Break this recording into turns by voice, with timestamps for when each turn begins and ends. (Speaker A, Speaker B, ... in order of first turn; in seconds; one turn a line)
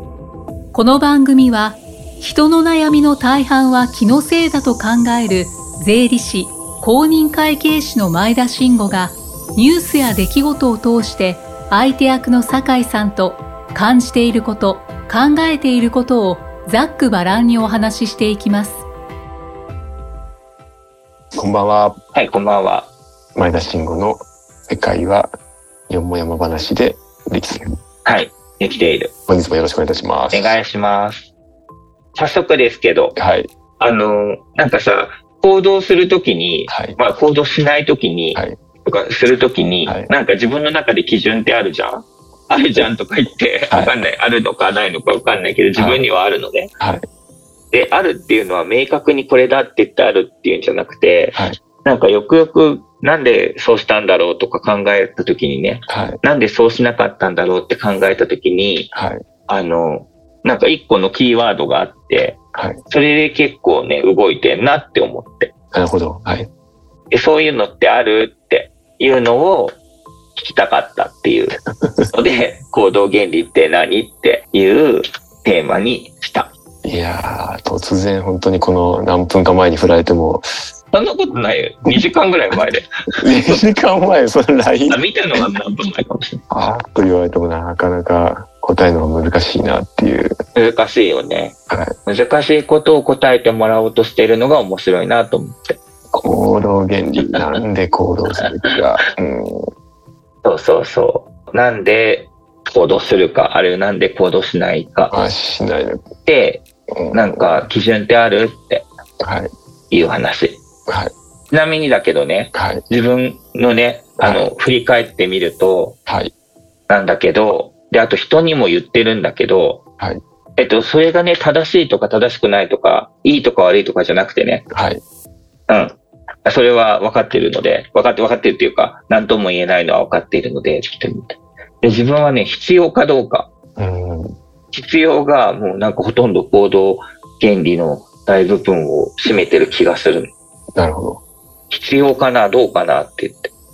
Speaker A: 0.7-18.9
Speaker B: 21.3-22.0
Speaker C: 22.1-22.9
Speaker B: 23.4-25.3
Speaker B: 25.9-27.8
Speaker C: 28.1-29.1
Speaker B: 29.3-30.6
Speaker C: 30.3-31.3
Speaker C: 32.1-33.2
Speaker B: 33.2-33.5
Speaker C: 33.8-46.7
Speaker B: 36.7-37.0
Speaker B: 43.7-44.0
Speaker B: 45.8-46.0
Speaker B: 46.8-47.1
Speaker C: 47.7-58.9
Speaker B: 55.9-56.2
Speaker B: 59.0-59.2
Speaker C: 59.5-62.4
Speaker C: 62.9-65.5
Speaker B: 65.7-66.5
Speaker C: 67.1-69.8
Speaker C: 70.3-71.6
Speaker C: 72.1-76.5
Speaker B: 76.8-80.5
Speaker C: 80.9-82.9
Speaker B: 83.2-85.5
Speaker C: 84.9-86.5
Speaker B: 86.5-90.4
Speaker C: 90.5-95.8
Speaker B: 91.7-92.0
Speaker B: 96.1-99.7
Speaker C: 100.4-105.1
Speaker B: 105.1-106.0
Speaker C: 106.2-108.9
Speaker B: 106.9-107.7
Speaker B: 109.2-109.5
Speaker C: 109.9-110.6
Speaker B: 110.9-111.1
Speaker C: 111.5-116.0
Speaker B: 112.5-112.8
Speaker B: 114.2-114.5
Speaker B: 116.1-116.3
Speaker C: 116.9-119.8
Speaker C: 120.6-124.7
Speaker B: 124.7-125.0
Speaker C: 125.7-133.5
Speaker B: 133.8-134.4
Speaker C: 134.7-140.3
Speaker B: 140.8-141.2
Speaker C: 141.7-143.5